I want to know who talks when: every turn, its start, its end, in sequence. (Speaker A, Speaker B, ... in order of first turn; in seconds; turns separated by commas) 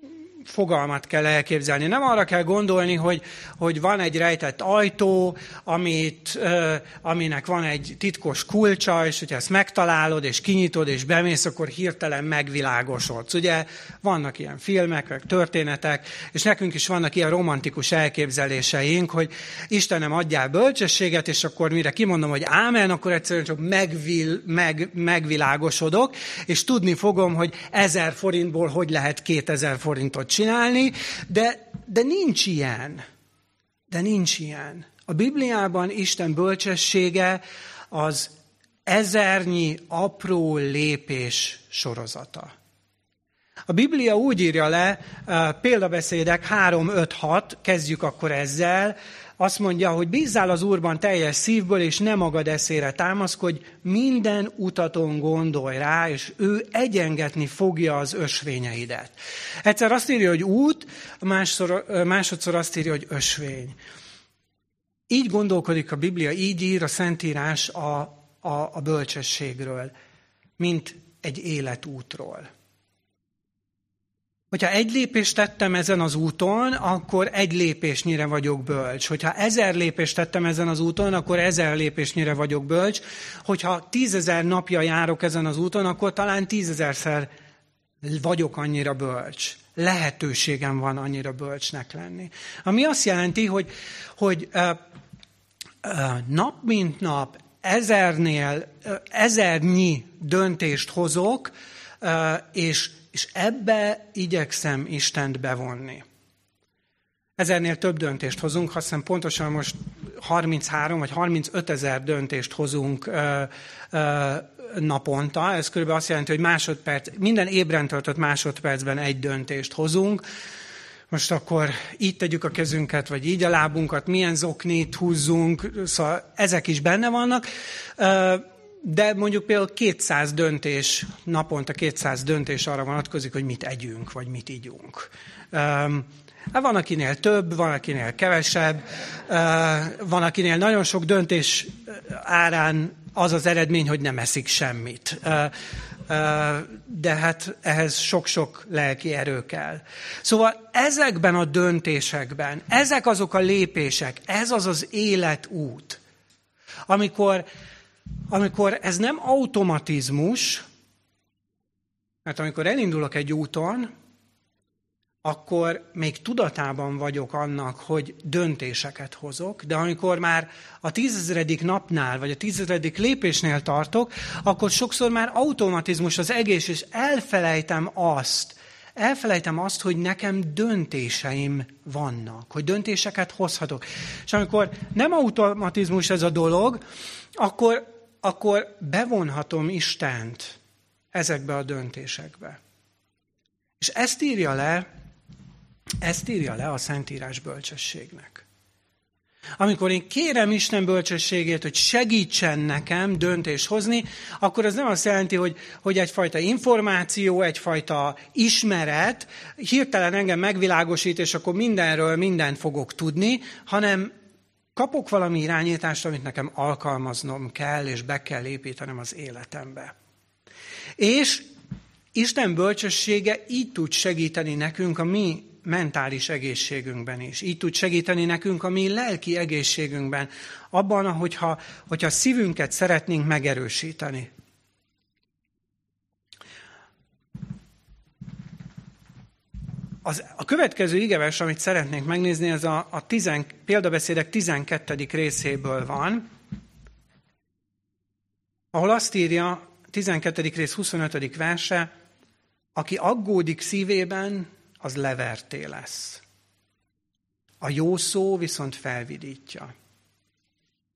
Speaker A: 0.4-33.0, Speaker A: 33.9-38.3, Speaker A: 38.9-42.5, Speaker A: 43.7-63.8, Speaker A: 65.1-69.9, Speaker A: 70.6-72.5, Speaker A: 74.5-87.3, Speaker A: 88.0-94.8, Speaker A: 95.8-106.0, Speaker A: 107.4-120.2, Speaker A: 121.1-127.5, Speaker A: 128.0-145.5, Speaker A: 146.1-156.0, Speaker A: 156.9-157.4, Speaker A: 158.3-160.6, Speaker A: 162.2-163.9, Speaker A: 165.2-186.8, Speaker A: 187.4-190.6, Speaker A: 191.1-192.6, Speaker A: 193.8-194.8, Speaker A: 196.0-198.4, Speaker A: 199.6-214.1, Speaker A: 214.7-219.9, Speaker A: 221.0-221.5, Speaker A: 222.1-234.3, Speaker A: 240.0-246.3, Speaker A: 248.7-251.9, Speaker A: 252.8-256.2, Speaker A: 257.6-259.7